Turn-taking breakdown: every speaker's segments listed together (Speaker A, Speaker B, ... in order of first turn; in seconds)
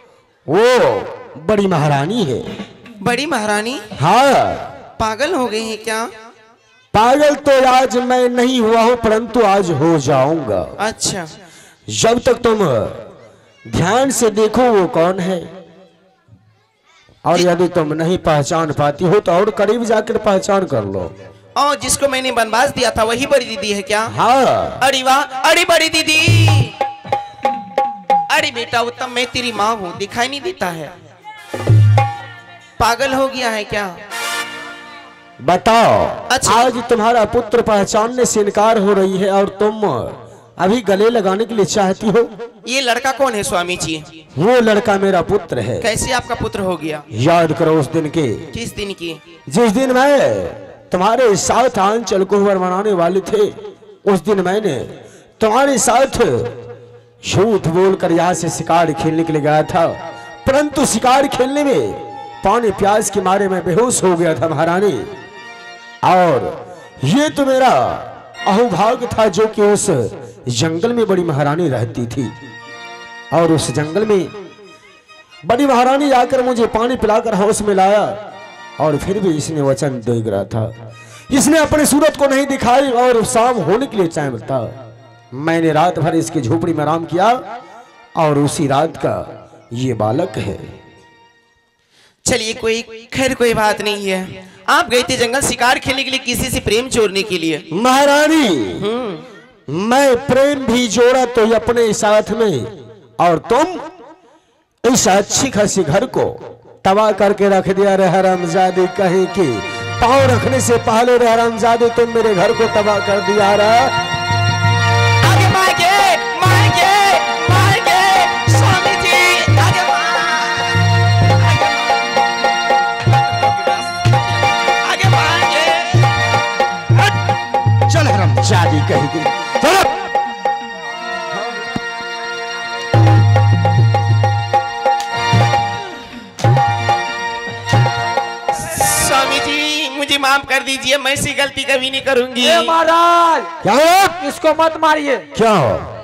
Speaker A: 0.5-2.5, 4.0-4.7, 6.9-10.7, 11.9-13.0, 13.7-15.5, 17.2-21.1, 24.1-24.8, 35.4-42.3, 44.4-45.9, 47.1-48.4, 49.5-53.5, 54.0-54.9, 55.4-56.5, 57.2-65.1, 66.0-72.3, 73.3-74.3, 75.4-78.1, 78.8-80.7, 81.3-84.7, 85.3-87.4, 88.2-90.6, 97.7-98.8, 99.7-103.8, 104.8-113.9, 127.9-129.9, 143.6-144.2, 145.3-145.9
Speaker B: 3.0-3.9, 5.0-6.1, 10.8-11.3, 21.6-24.1, 24.8-26.8, 28.3-30.9, 32.8-34.0, 36.3-36.7, 42.6-44.0, 45.8-47.0, 48.5-49.2, 92.2-97.6, 98.8-99.2, 115.2-122.1, 123.2-124.2, 124.7-126.2, 138.5-142.7
Speaker C: 142.4-143.5, 144.2-145.3